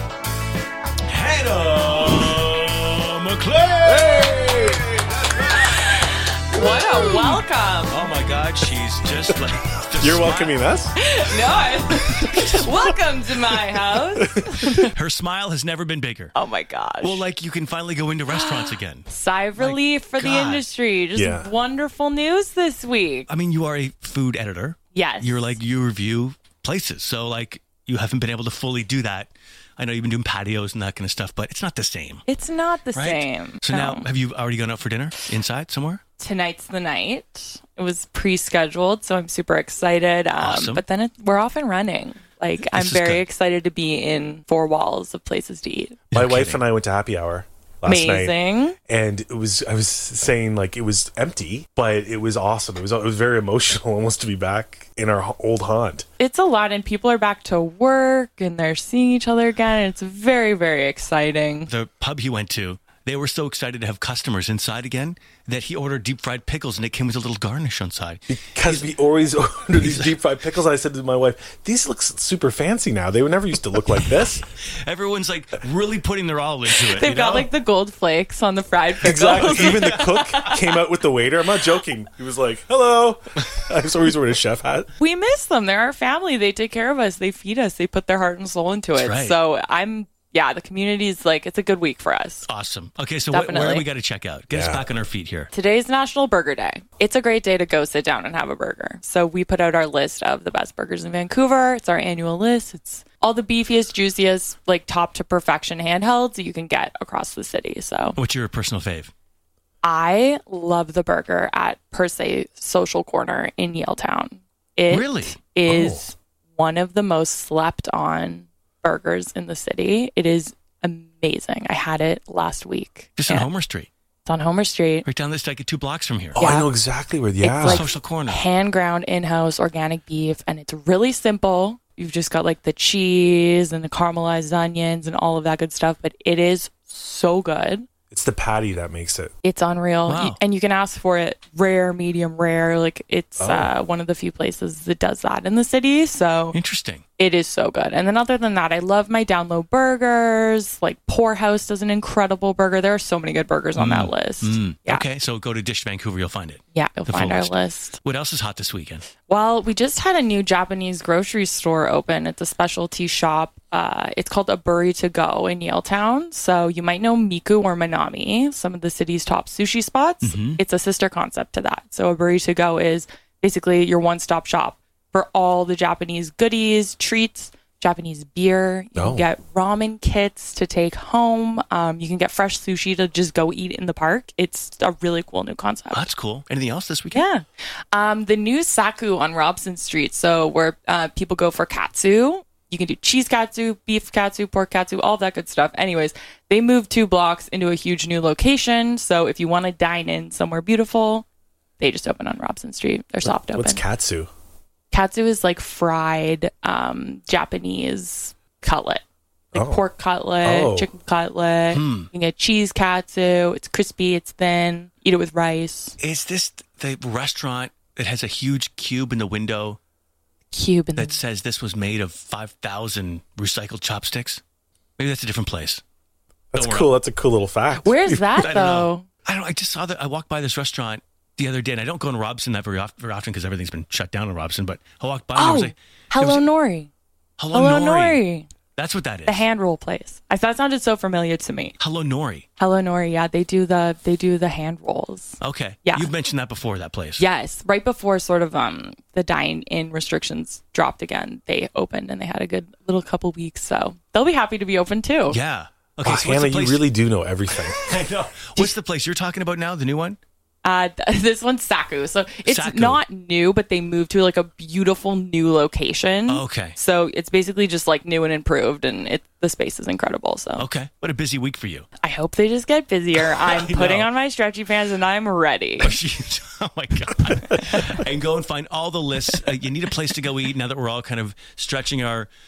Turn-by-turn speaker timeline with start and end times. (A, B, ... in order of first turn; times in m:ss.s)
0:01.0-0:05.7 A
0:04.1-0:04.5 B
0:05.6-0:08.1 C
0:07.9-0:10.6 A
0:10.0-0:11.0 B
0:11.0-0:14.9 C
0:12.1-0:12.7 A
0:14.2-0:14.6 B
0:14.9-0:16.3 A
0:16.3-0:17.2 C
0:17.0-0:20.6 A
0:18.3-0:23.3 C
0:21.1-0:21.5 B
0:23.3-0:32.2 A
0:24.9-0:25.6 C
0:32.3-0:34.1 C
0:32.9-0:36.0 A
0:36.2-0:46.0 C
0:40.4-0:40.8 A
0:42.7-0:43.2 A
0:46.1-0:46.6 A
0:46.1-0:56.0 B
0:47.8-0:48.8 C
0:56.2-1:01.7 C
1:01.7-1:08.9 A
1:08.3-1:14.4 B
1:09.7-1:10.2 A
1:14.6-1:17.5 A
1:16.8-1:20.6 C
1:19.0-1:24.9 B
1:19.3-1:20.5 A
1:25.0-1:32.5 C
1:28.9-1:29.4 A
1:32.4-1:35.5 A
1:33.3-1:33.9 C
1:34.5-1:34.8 B
1:35.5-1:48.2 C
1:48.2-1:49.1 A
1:49.8-2:03.5 C
1:54.9-1:55.4 A
1:55.7-1:56.0 B
2:03.2-2:03.9 A
2:04.2-2:05.0 C
2:05.0-2:06.5 A
2:06.3-2:07.9 B
2:06.4-2:06.7 C
2:07.4-2:17.9 C
2:07.6-2:08.4 A
2:18.1-2:19.3 B
2:19.4-2:26.6 C
2:20.1-2:20.4 A
2:23.4-2:23.7 B
2:26.5-2:27.0 A
2:27.2-2:35.1 C
2:33.8-2:39.0 A
2:36.7-2:38.0 C
2:39.3-3:06.1 C
2:50.2-2:50.6 A
2:59.0-2:59.3 B
3:05.9-3:07.2 A
3:07.1-3:21.2 C
3:21.8-3:23.8 C
3:23.2-3:24.3 B
3:24.9-3:35.9 C
3:29.5-3:29.8 B
3:30.4-3:30.9 B
3:31.7-3:32.1 A
3:36.0-3:39.8 A
3:40.5-3:41.2 C
3:40.9-3:44.4 A
3:45.0-3:45.8 A
3:46.5-3:48.4 B
3:46.5-3:46.9 A
3:47.8-3:49.1 C
3:48.4-3:56.4 A
3:55.3-3:56.9 C
3:57.4-3:58.2 A
3:57.5-3:58.5 C
3:58.8-3:59.4 A
3:59.2-4:01.7 C
4:01.8-4:02.5 A
4:02.6-4:06.1 C
4:05.4-4:07.2 A
4:07.2-4:15.4 C
4:15.3-4:16.9 A
4:16.0-4:17.8 B
4:17.5-4:20.2 A
4:20.6-4:30.7 C
4:22.4-4:23.0 A
4:26.3-4:26.8 A
4:30.6-4:31.9 A
4:32.0-4:35.9 C
4:33.2-4:34.1 A
4:35.8-4:42.3 A
4:37.6-4:37.8 C